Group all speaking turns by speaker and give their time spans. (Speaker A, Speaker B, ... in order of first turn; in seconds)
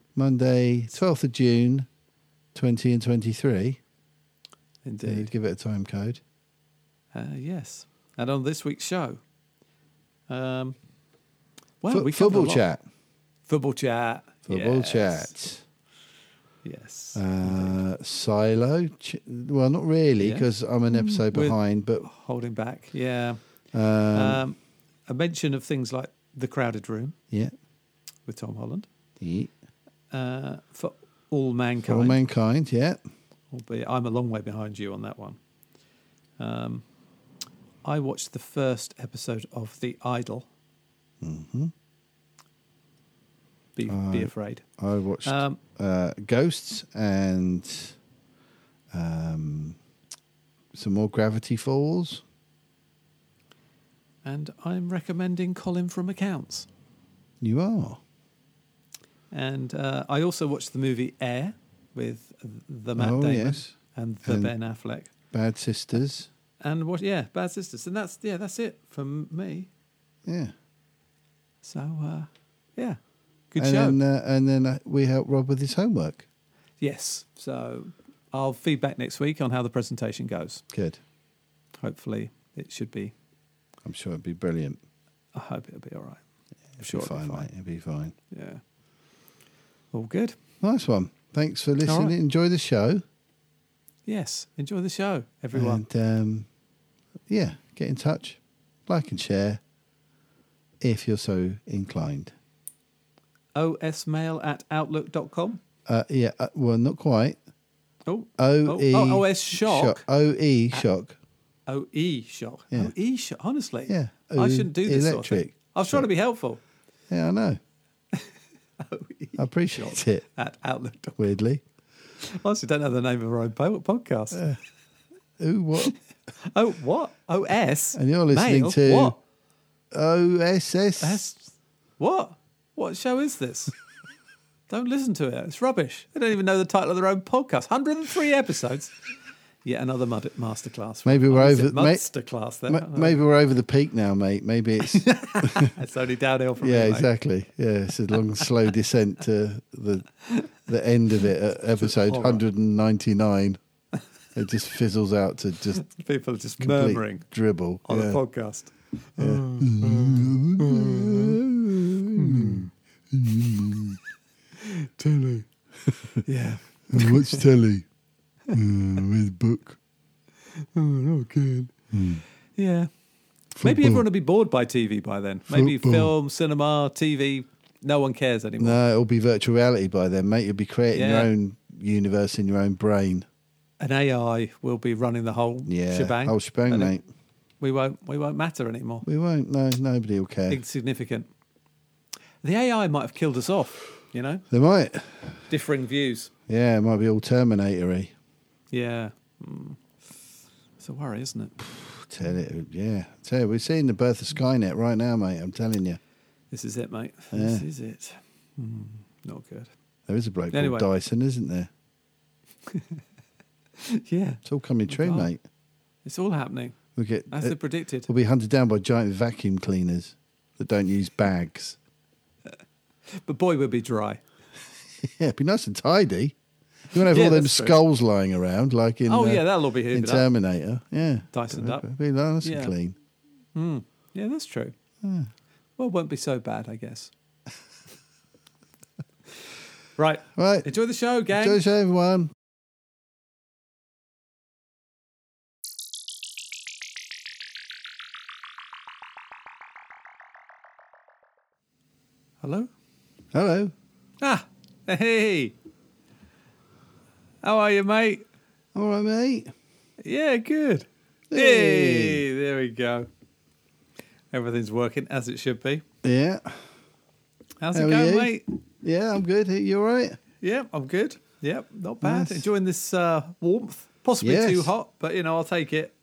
Speaker A: 0.2-1.9, 2.5-3.8, 5.1-6.2, 11.9-12.8, 14.5-15.6, 17.1-22.1, 23.7-24.4, 29.2-29.5, 31.8-33.0, 41.2-41.7, 43.9-48.0, 48.9-49.8, 50.7-52.2, 57.4-58.0, 63.0-64.5, 65.3-66.3, 70.3-70.5, 73.6-76.3, 80.7-81.0, 83.8-84.8, 86.8-88.2, 90.6-93.0, 95.5-96.5, 97.3-99.6, 100.8-102.3, 105.9-107.4, 108.4-111.2, 113.9-116.1, 117.1-117.6, 119.4-120.2, 121.2-121.6, 124.3-124.6, 125.4-125.9, 128.0-129.1, 129.9-131.2, 141.1-142.1, 142.7-145.7, 146.6-153.6, 154.3-155.8, 156.6-158.2, 159.2-164.0, 165.9-166.2, 166.9-167.9, 168.5-169.8, 171.9-172.2, 173.6-174.1, 175.5-176.1, 178.6-183.3, 185.7-187.0, 189.1-190.6, 194.5-195.4, 196.5-198.1, 201.6-206.0, 207.3-207.7, 210.1-211.7, 214.4-215.4, 217.0-217.6, 218.1-221.8, 225.0-226.3, 226.9-232.9, 235.0-235.3, 240.3-240.7, 241.3-242.3, 253.3-253.7, 258.8-259.5, 261.3-262.2, 266.0-266.7, 267.7-268.3, 268.8-270.2, 272.0-272.5, 274.2-274.7
Speaker B: 4.8-5.3, 7.1-9.2, 10.3-10.8, 11.8-12.7, 13.5-15.3, 16.6-17.8, 20.2-23.4, 24.1-27.2, 28.3-28.9, 30.1-32.2, 33.5-35.4, 36.4-36.8, 37.9-40.5, 43.8-44.6, 45.2-45.6, 54.2-56.7, 59.3-65.1, 66.6-69.7, 71.6-73.0, 73.5-74.0, 76.8-80.6, 81.8-83.1, 85.3-86.2, 86.8-87.5, 88.3-88.6, 89.9-90.3, 91.8-92.2, 94.1-95.8, 103.5-105.6, 108.1-110.0, 111.7-116.6, 118.1-121.3, 122.2-124.5, 125.8-129.2, 131.0-133.7, 134.7-139.0, 139.6-143.2, 144.8-147.1, 151.8-152.4, 155.7-157.3, 157.9-161.4, 162.1-162.7, 164.6-165.5, 166.2-167.4, 170.7-171.8, 172.6-172.9, 173.6-178.8, 180.9-181.3, 183.8-186.9, 187.6-189.1, 190.5-191.3, 192.4-194.4, 195.5-196.3, 198.7-199.8, 200.8-201.6, 206.5-209.7, 210.5-210.9, 212.7-213.0, 213.8-215.3, 216.1-216.8, 217.3-218.1, 223.1-224.2, 227.1-227.8, 229.1-230.3, 231.3-231.9, 232.4-232.7, 233.6-234.8, 235.8-237.1, 240.0-241.6, 252.4-252.7, 254.2-255.6, 257.4-258.2, 260.0-263.1, 264.3-265.8, 267.6-268.5, 270.4-275.9